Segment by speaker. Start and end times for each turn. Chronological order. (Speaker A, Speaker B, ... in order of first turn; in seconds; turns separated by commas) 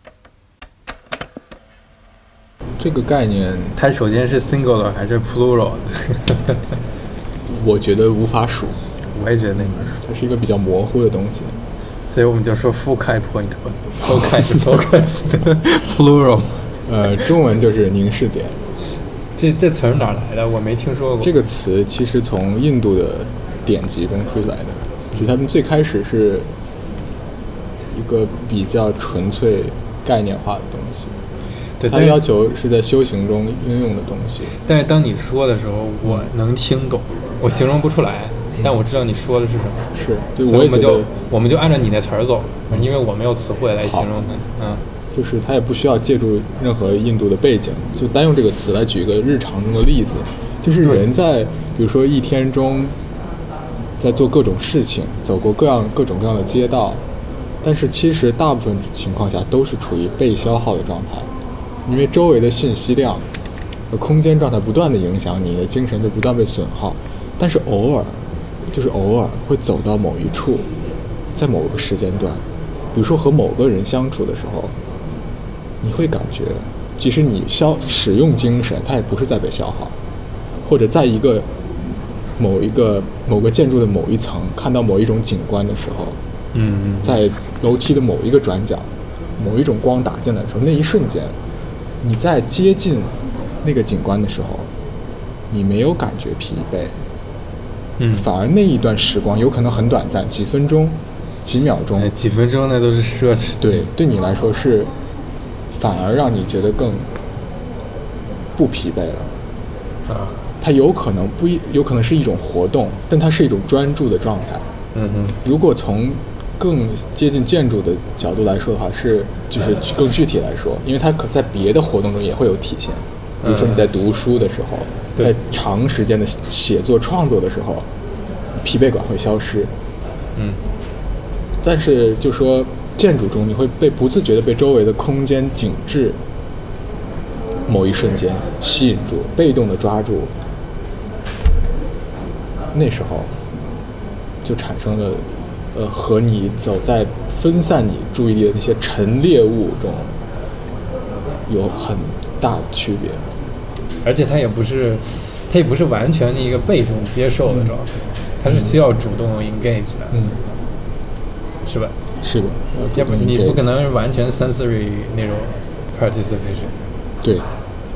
Speaker A: 2.8-3.8, Speaker B: 3.8-6.6, Speaker A: 7.5-8.8, Speaker B: 9.1-10.0, Speaker A: 9.6-11.6, Speaker B: 12.1-16.6, Speaker A: 16.9-18.6, Speaker B: 18.9-21.4, Speaker A: 21.2-26.5, Speaker A: 27.9-31.1, Speaker B: 31.8-32.2, Speaker A: 31.9-34.5, Speaker B: 34.6-39.9, Speaker A: 39.9-41.1, Speaker B: 40.4-44.8, Speaker A: 43.8-44.1, Speaker A: 45.1-53.0, Speaker A: 54.0-57.0, Speaker A: 57.6-61.3, Speaker A: 61.9-63.2, Speaker A: 63.9-70.7, Speaker A: 71.3-74.7, Speaker A: 75.8-79.9, Speaker A: 80.6-81.5, Speaker A: 82.4-86.2, Speaker B: 86.5-87.2, Speaker A: 87.0-91.3, Speaker A: 92.0-94.7, Speaker A: 95.5-97.0, Speaker B: 98.0-98.3, Speaker A: 98.1-102.1, Speaker B: 102.0-103.7, Speaker A: 103.6-104.9, Speaker A: 105.7-107.1, Speaker A: 108.5-109.3, Speaker B: 110.1-110.4, Speaker A: 110.6-114.7, Speaker B: 114.9-115.4, Speaker A: 115.4-127.9, Speaker B: 123.4-123.9, Speaker A: 128.6-129.7, Speaker B: 130.3-130.6, Speaker A: 131.6-136.2, Speaker A: 137.7-140.3, Speaker A: 142.7-143.3, Speaker A: 144.4-150.1, Speaker A: 151.5-153.2, Speaker B: 154.0-160.3, Speaker A: 158.5-158.7, Speaker A: 160.1-160.4, Speaker B: 161.7-161.9, Speaker A: 162.2-163.7, Speaker B: 162.9-166.7, Speaker A: 167.2-167.5